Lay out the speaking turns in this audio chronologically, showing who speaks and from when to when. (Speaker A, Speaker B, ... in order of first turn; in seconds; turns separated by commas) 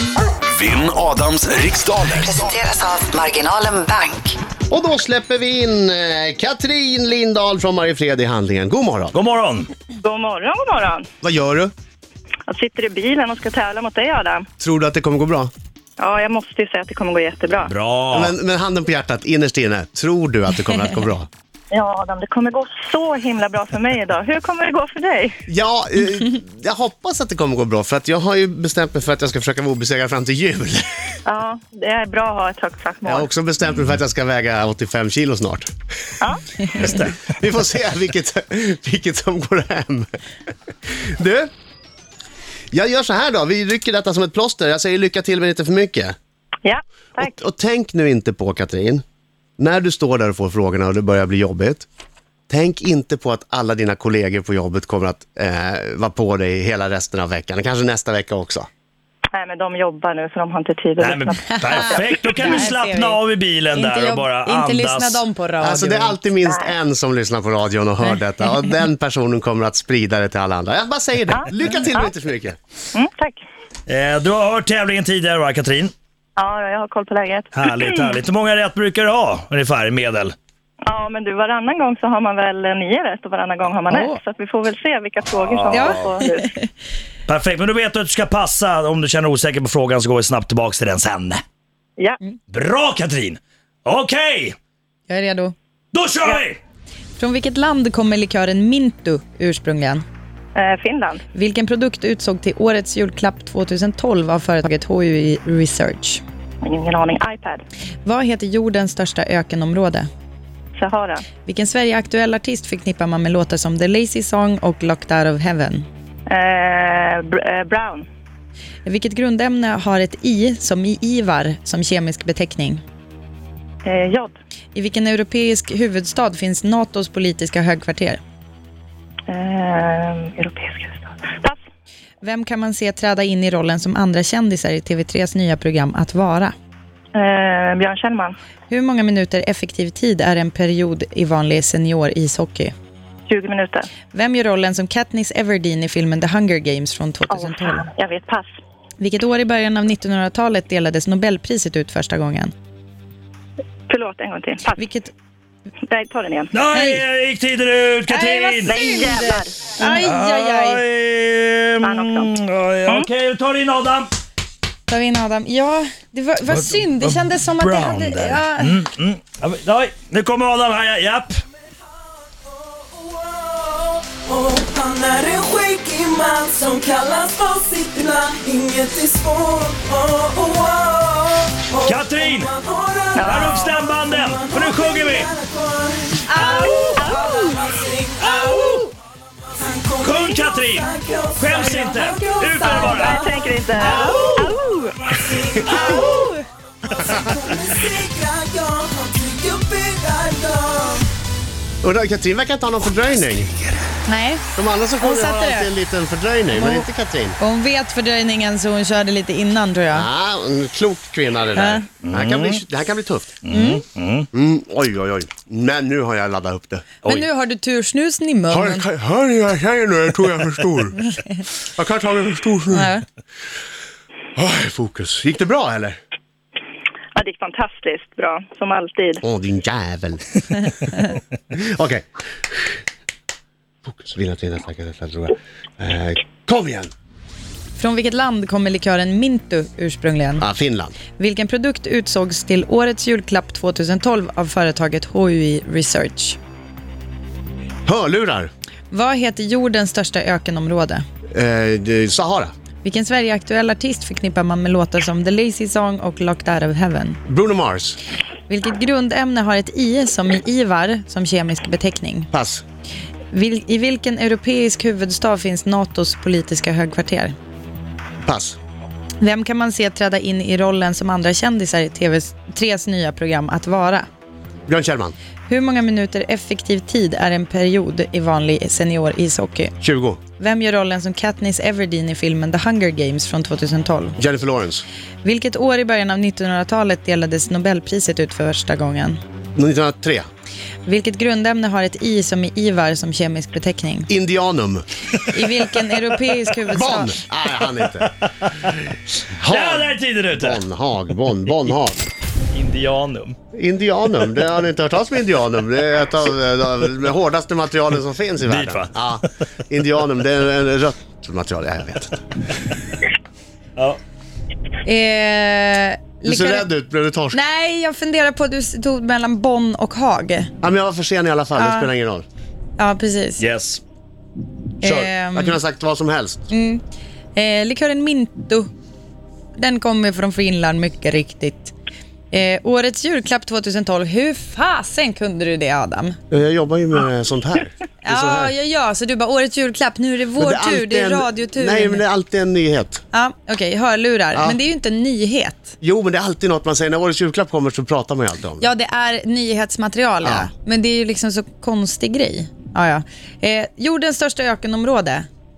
Speaker A: 0.5-2.5, Speaker B: 2.2-4.4, Speaker C: 4.7-9.2, Speaker D: 9.1-9.7, Speaker E: 10.0-11.1, Speaker C: 11.2-11.7, Speaker E: 12.5-14.5, Speaker C: 14.6-15.5, Speaker E: 16.0-17.7, Speaker D: 17.6-18.3, Speaker C: 18.1-21.3, Speaker E: 21.7-25.4, Speaker C: 25.5-31.1, Speaker E: 31.2-33.3, Speaker C: 33.0-35.7, Speaker C: 36.8-40.1, Speaker D: 36.8-37.1, Speaker C: 40.9-41.5, Speaker C: 42.7-46.1, Speaker E: 46.6-47.3, Speaker C: 47.2-49.0, Speaker C: 49.6-51.9, Speaker C: 52.5-58.7, Speaker E: 59.3-62.1, Speaker D: 61.0-65.2, Speaker F: 61.5-63.2, Speaker F: 63.7-66.2, Speaker C: 65.6-72.6, Speaker E: 66.5-66.7, Speaker E: 71.3-72.1, Speaker E: 72.9-73.4, Speaker D: 73.9-75.9, Speaker E: 76.4-78.2, Speaker D: 77.5-80.3, Speaker E: 80.9-86.5, Speaker F: 83.9-84.2, Speaker D: 85.4-86.0, Speaker F: 85.7-86.7, Speaker D: 87.3-91.4, Speaker D: 92.5-94.5, Speaker F: 95.1-95.5, Speaker D: 95.9-96.6, Speaker F: 97.2-100.0, Speaker E: 100.5-101.2, Speaker F: 101.3-106.2, Speaker E: 106.6-107.6, Speaker F: 108.0-110.1, Speaker E: 110.8-111.2, Speaker F: 111.5-115.8, Speaker E: 116.3-118.1, Speaker F: 118.8-122.8, Speaker E: 123.8-124.3, Speaker F: 124.7-128.2, Speaker E: 129.3-131.6, Speaker F: 132.2-136.5, Speaker E: 137.2-138.3, Speaker F: 138.7-142.7, Speaker E: 143.3-143.9, Speaker F: 144.1-147.9, Speaker E: 147.3-148.5, Speaker F: 149.0-152.5, Speaker E: 153.9-154.8, Speaker F: 154.8-155.1, Speaker E: 155.9-156.5, Speaker D: 156.5-158.8, Speaker F: 156.7-157.0, Speaker F: 158.1-160.8, Speaker E: 158.7-159.5, Speaker D: 159.8-164.1, Speaker E: 161.8-162.3, Speaker F: 164.9-168.8, Speaker D: 166.5-171.3, Speaker G: 172.4-188.9, Speaker D: 181.8-182.5, Speaker E: 183.1-183.7, Speaker D: 183.3-185.3, Speaker F: 186.2-187.6, Speaker E: 186.7-187.3, Speaker F: 188.3-188.8, Speaker G: 189.5-196.3, Speaker D: 190.0-193.2, Speaker E: 192.6-194.9, Speaker F: 193.8-194.4, Speaker F: 195.6-196.4, Speaker G: 196.9-201.1, Speaker C: 201.8-203.5, Speaker F: 204.1-204.4, Speaker C: 204.5-207.4, Speaker F: 205.0-205.7, Speaker F: 206.5-206.9, Speaker F: 207.4-210.1, Speaker C: 209.9-213.3, Speaker F: 211.6-211.8, Speaker D: 212.1-212.6, Speaker D: 213.4-214.3, Speaker F: 213.5-213.8, Speaker C: 214.3-216.9, Speaker F: 217.0-218.8, Speaker C: 218.5-221.0, Speaker C: 221.8-222.9, Speaker F: 222.7-223.0, Speaker C: 224.3-226.0, Speaker E: 227.2-229.2, Speaker C: 229.2-230.3, Speaker C: 231.5-232.0, Speaker C: 233.8-236.9, Speaker F: 237.8-240.4, Speaker C: 240.4-240.9, Speaker F: 241.2-246.4, Speaker C: 247.8-248.5, Speaker F: 248.9-251.0, Speaker C: 251.3-252.5, Speaker F: 252.8-257.2, Speaker C: 257.2-258.0, Speaker F: 258.5-262.3, Speaker C: 262.3-262.6, Speaker F: 263.3-267.4, Speaker C: 268.2-268.6, Speaker F: 269.2-274.1, Speaker C: 274.7-275.2, Speaker F: 275.5-279.8, Speaker C: 279.8-280.2, Speaker F: 280.4-284.2, Speaker C: 284.2-284.8, Speaker F: 285.2-289.2, Speaker C: 289.6-290.2, Speaker F: 290.9-294.1, Speaker C: 294.1-294.9, Speaker F: 295.2-297.2, Speaker C: 296.7-298.1, Speaker D: 298.4-298.8, Speaker C: 299.4-302.0, Speaker D: 299.5-300.6, Speaker D: 302.5-303.4, Speaker C: 303.5-312.2, Speaker D: 308.5-308.9, Speaker F: 314.8-316.7, Speaker C: 316.2-317.4, Speaker F: 317.3-320.5, Speaker C: 320.6-322.2, Speaker F: 321.6-321.9, Speaker F: 322.8-323.4, Speaker D: 323.4-323.8, Speaker F: 324.8-325.6, Speaker C: 324.8-326.5, Speaker F: 326.5-326.8, Speaker F: 327.4-328.7, Speaker F: 329.6-331.7, Speaker F: 332.3-336.2, Speaker C: 336.3-338.5, Speaker F: 338.0-342.0, Speaker C: 340.4-343.0, Speaker F: 343.1-345.7, Speaker C: 344.3-344.6, Speaker C: 345.8-348.7, Speaker F: 348.6-355.3, Speaker C: 350.2-350.5